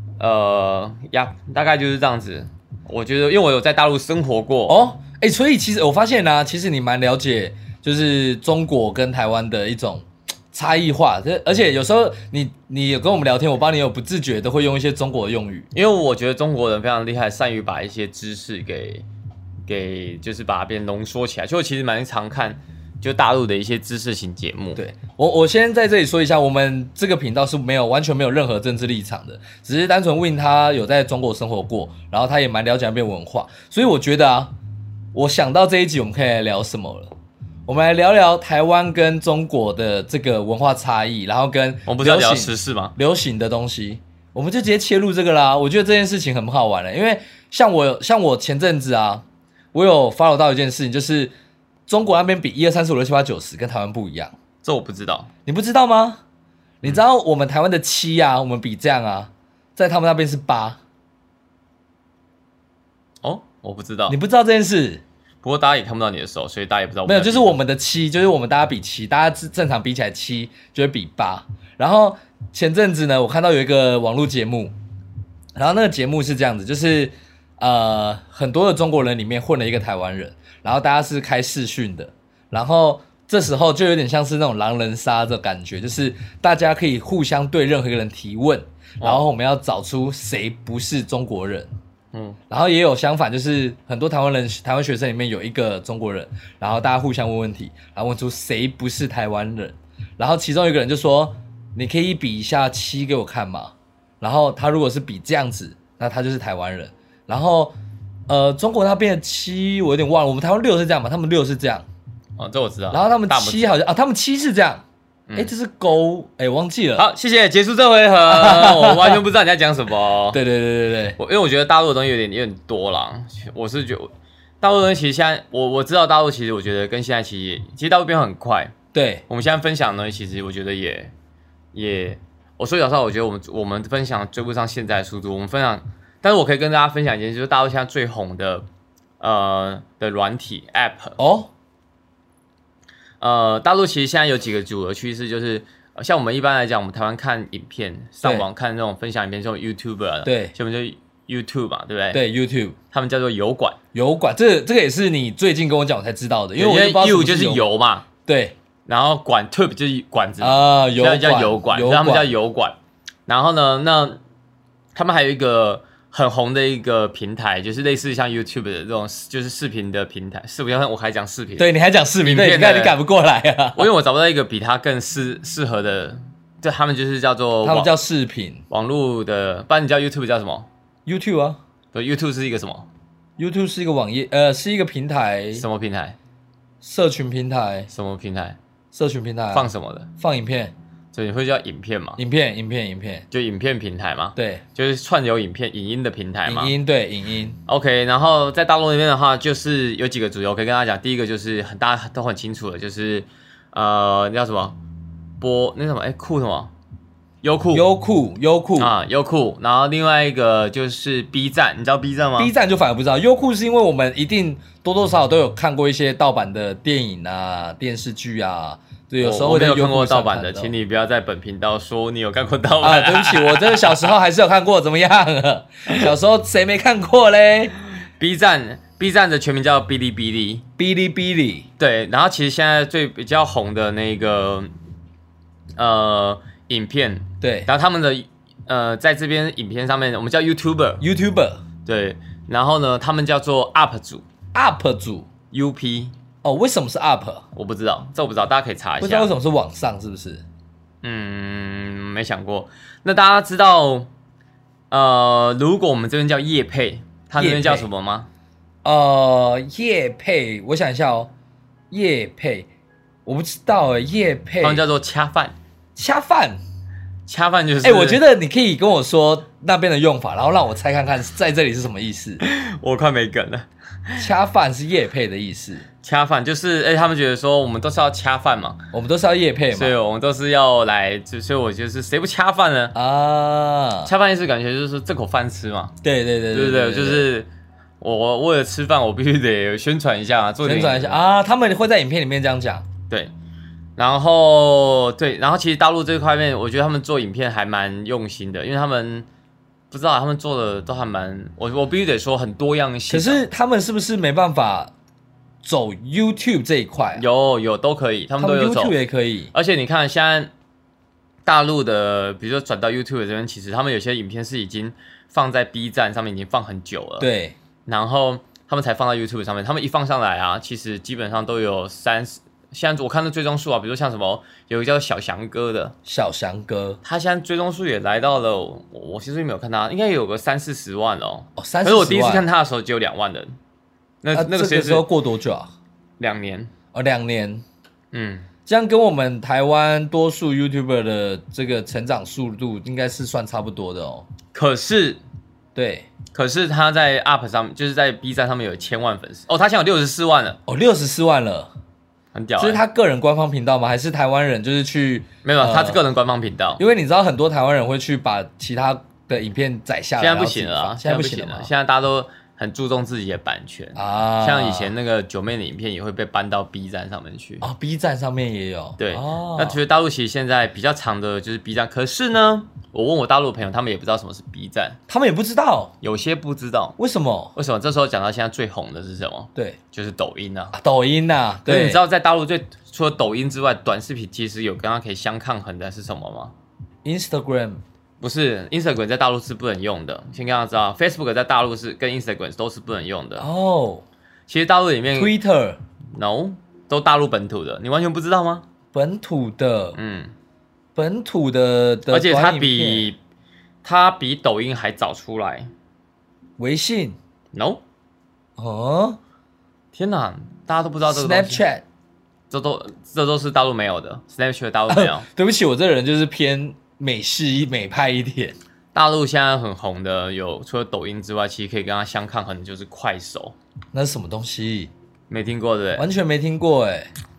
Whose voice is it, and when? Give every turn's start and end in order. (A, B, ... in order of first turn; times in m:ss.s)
0:00.2-0:04.8 A
0:04.7-0:15.7 B
0:15.7-0:19.1 A
0:19.7-0:24.8 A
0:24.8-0:34.5 B
0:35.1-0:37.1 B
0:37.7-0:51.3 B
0:41.9-0:42.9 A
0:51.9-0:54.3 B
0:54.6-0:55.3 A
0:55.5-0:56.2 B
0:56.8-1:00.8 B
1:03.2-1:04.2 A
1:04.1-1:05.0 B
1:05.4-1:07.6 A
1:07.1-1:14.7 B
1:15.6-1:31.7 B
1:29.0-1:29.3 A
1:32.1-1:32.4 A
1:32.5-1:47.7 B
1:48.3-1:51.9 B
1:52.4-1:53.8 A
1:52.9-1:54.8 B
1:55.4-1:57.0 B
1:57.0-2:00.4 A
1:58.3-1:59.2 B
2:00.3-2:01.2 B
2:01.2-2:08.7 A
2:08.9-2:09.2 B
2:09.3-2:11.1 A
2:11.7-2:18.7 A
2:19.2-2:21.2 A
2:21.2-2:21.5 B
2:23.2-2:32.2 A
2:30.2-2:30.5 B
2:32.1-2:32.8 B
2:32.9-2:33.8 A
2:33.9-2:37.7 B
2:36.6-2:38.1 A
2:38.3-2:38.6 B
2:38.9-2:42.8 A
2:40.4-2:42.3 B
2:43.3-2:44.2 A
2:45.0-2:51.7 A
2:51.6-2:53.9 B
2:52.2-2:53.0 A
2:53.8-2:57.9 A
2:57.6-2:58.6 B
2:58.7-3:00.7 A
3:01.1-3:01.6 B
3:01.9-3:02.9 A
3:03.4-3:05.6 B
3:05.5-3:06.2 A
3:06.8-3:07.9 B
3:07.9-3:08.6 A
3:08.9-3:10.7 B
3:09.5-3:10.1 A
3:11.1-3:12.2 A
3:12.2-3:13.3 B
3:13.3-3:16.7 A
3:14.4-3:14.6 B
3:16.5-3:17.6 B
3:17.7-3:24.8 A
3:25.4-3:26.7 A
3:27.4-3:27.9 A
3:27.7-3:28.9 B
3:28.8-3:32.5 A
3:32.4-3:40.7 B
3:39.2-3:44.2 A
3:42.8-3:47.8 B
3:48.2-3:50.6 A
3:50.8-3:51.7 B
3:51.8-3:54.7 A
3:55.8-4:01.0 A
3:57.4-3:57.7 B
4:01.0-4:01.6 B
4:01.9-4:04.2 A
4:04.5-4:05.3 B
4:05.5-4:06.1 A
4:06.4-4:07.4 B
4:07.6-4:09.3 A
4:09.0-4:10.4 B
4:11.0-4:14.1 A
4:14.9-4:18.3 A
4:17.4-4:17.9 B
4:18.8-4:21.3 B
4:21.9-4:22.7 B
4:23.3-4:24.8 B
4:24.6-4:25.6 A
4:26.0-4:26.6 B
4:27.3-4:28.2 A
4:27.8-4:32.4 B
4:32.4-4:34.3 A
4:34.2-4:35.9 B
4:36.0-4:38.8 A
4:38.9-4:40.0 B
4:39.7-4:43.0 A
4:43.0-4:44.1 B
4:44.0-4:45.9 A
4:46.0-4:47.3 B
4:46.5-4:47.5 A
4:48.0-4:51.2 A
4:50.6-4:52.9 B
4:54.0-4:59.3 A
4:59.9-5:03.4 A
5:03.1-5:04.9 B
5:05.6-5:07.2 B
5:07.2-5:09.0 A
5:08.4-5:09.5 B
5:09.5-5:10.5 A
5:11.5-5:17.3 A
5:17.2-5:17.6 B
5:17.9-5:26.0 A
5:26.1-5:27.0 B
5:27.0-5:33.5 A
5:31.6-5:32.4 B
5:34.2-5:35.1 A
5:34.3-5:35.7 B
5:36.2-5:36.7 A
5:36.9-5:37.6 B
5:38.1-5:38.5 A
5:38.7-5:44.3 B
5:44.5-5:45.2 A
5:45.8-5:46.1 B
5:46.3-5:50.6 A
5:50.7-5:51.7 B
5:52.3-5:52.8 A
5:52.6-5:56.0 B
5:55.4-5:56.8 A
5:56.8-6:01.7 B
6:00.2-6:07.6 A
6:04.0-6:04.9 B
6:07.6-6:09.8 B
6:09.0-6:15.0 A
6:15.1-6:15.9 B
6:16.0-6:17.0 A
6:17.0-6:17.5 B
6:17.6-6:20.8 A
6:20.7-6:22.0 B
6:21.7-6:26.5 A
6:27.0-6:27.8 B
6:28.2-6:33.5 A
6:33.4-6:34.0 B
6:34.5-6:35.4 A
6:35.2-6:35.8 B
6:36.1-6:38.6 A
6:38.9-6:40.0 B
6:40.0-6:40.3 A
6:41.0-6:43.1 B
6:42.1-6:43.2 A
6:43.8-6:45.7 A
6:46.6-6:47.2 B
6:47.5-6:47.8 A
6:48.6-6:49.2 B
6:49.9-6:51.6 A
6:51.1-6:51.8 B
6:52.5-6:55.3 A
6:54.9-6:58.6 B
6:58.9-7:03.6 A
7:03.9-7:04.9 B
7:05.3-7:06.1 A
7:06.0-7:07.1 B